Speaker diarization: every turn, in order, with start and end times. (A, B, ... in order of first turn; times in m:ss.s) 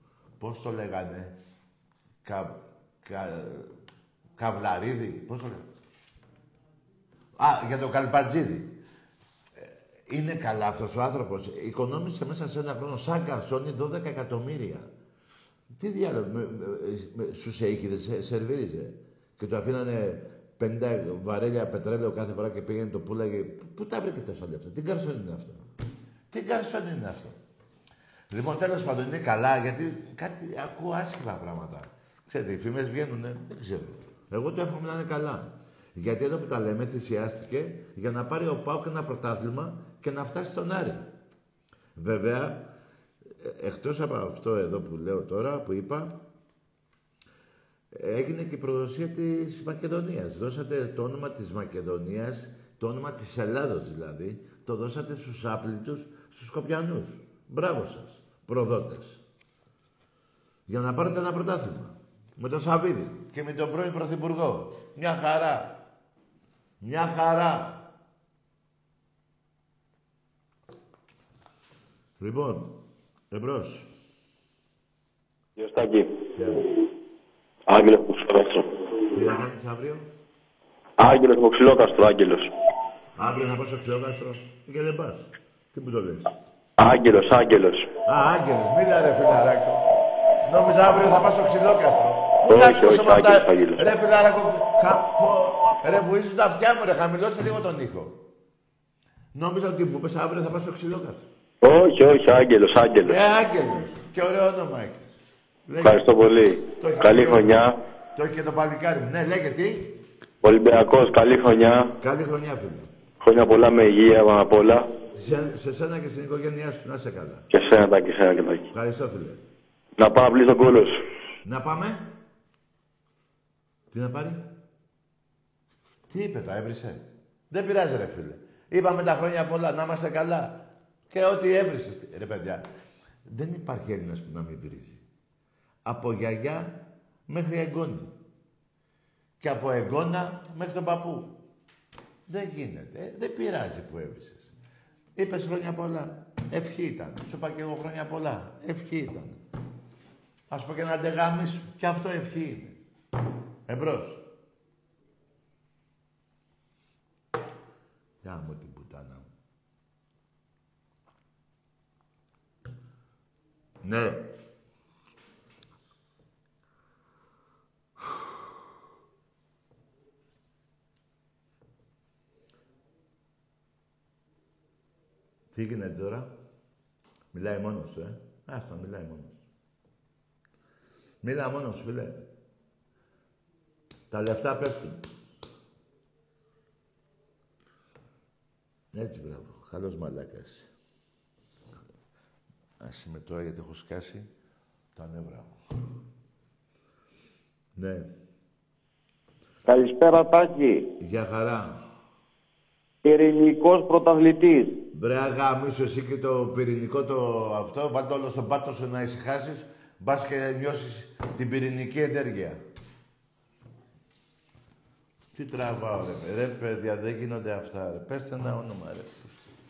0:00.4-0:01.3 A
0:02.2-0:03.7 A
0:04.4-0:05.7 A
0:07.4-0:08.7 A
0:09.6-0:14.9 A
0:15.7-0:25.6 A
0:26.3-0:27.4 A
0:28.3-0:41.1 A
0:42.0-0:42.6 A
0:43.4-0:46.2 A
0:47.9-0:59.2 A
1:00.7-1:05.8 A
1:06.8-1:07.8 A
1:12.2-1:12.8 A
1:13.3-1:13.9 A
1:15.6-1:16.1 B
1:16.4-1:16.6 A
1:17.7-1:18.6 B
1:19.1-1:20.1 A
1:21.0-1:22.5 B
1:23.2-1:26.3 A
1:26.8-1:27.9 B
1:28.0-1:29.8 A
1:30.4-1:38.2 A
1:32.4-1:33.8 B
1:39.3-1:41.3 A
1:41.6-1:43.2 B
1:43.0-1:46.0 A
1:45.8-1:47.8 B
1:46.8-1:47.6 A
1:48.2-1:50.0 A
1:50.4-1:51.9 B
1:52.0-1:52.9 A
1:53.2-1:54.9 B
1:55.1-1:57.4 A
1:57.5-1:58.6 B
1:58.7-1:59.4 A
2:00.0-2:00.9 B
2:01.4-2:02.1 A
2:03.9-2:04.4 A
2:06.1-2:12.6 A
2:13.2-2:15.0 A
2:15.8-2:18.1 A
2:19.4-2:21.4 A
2:22.3-2:24.5 A
2:25.2-2:29.4 A
2:30.5-2:32.8 A
2:33.7-2:34.2 A
2:38.2-2:39.3 A
2:43.8-2:44.3 A
2:55.5-2:56.3 A
2:57.3-2:59.4 A
3:01.2-3:02.2 A
3:04.1-3:05.0 A
3:08.9-3:10.7 A
3:12.8-3:14.3 A
3:15.0-3:15.6 A
3:17.8-3:18.1 A
3:19.7-3:20.8 C
3:21.0-3:21.8 A
3:23.0-3:24.7 C
3:24.9-3:32.6 A
3:35.3-3:39.4 A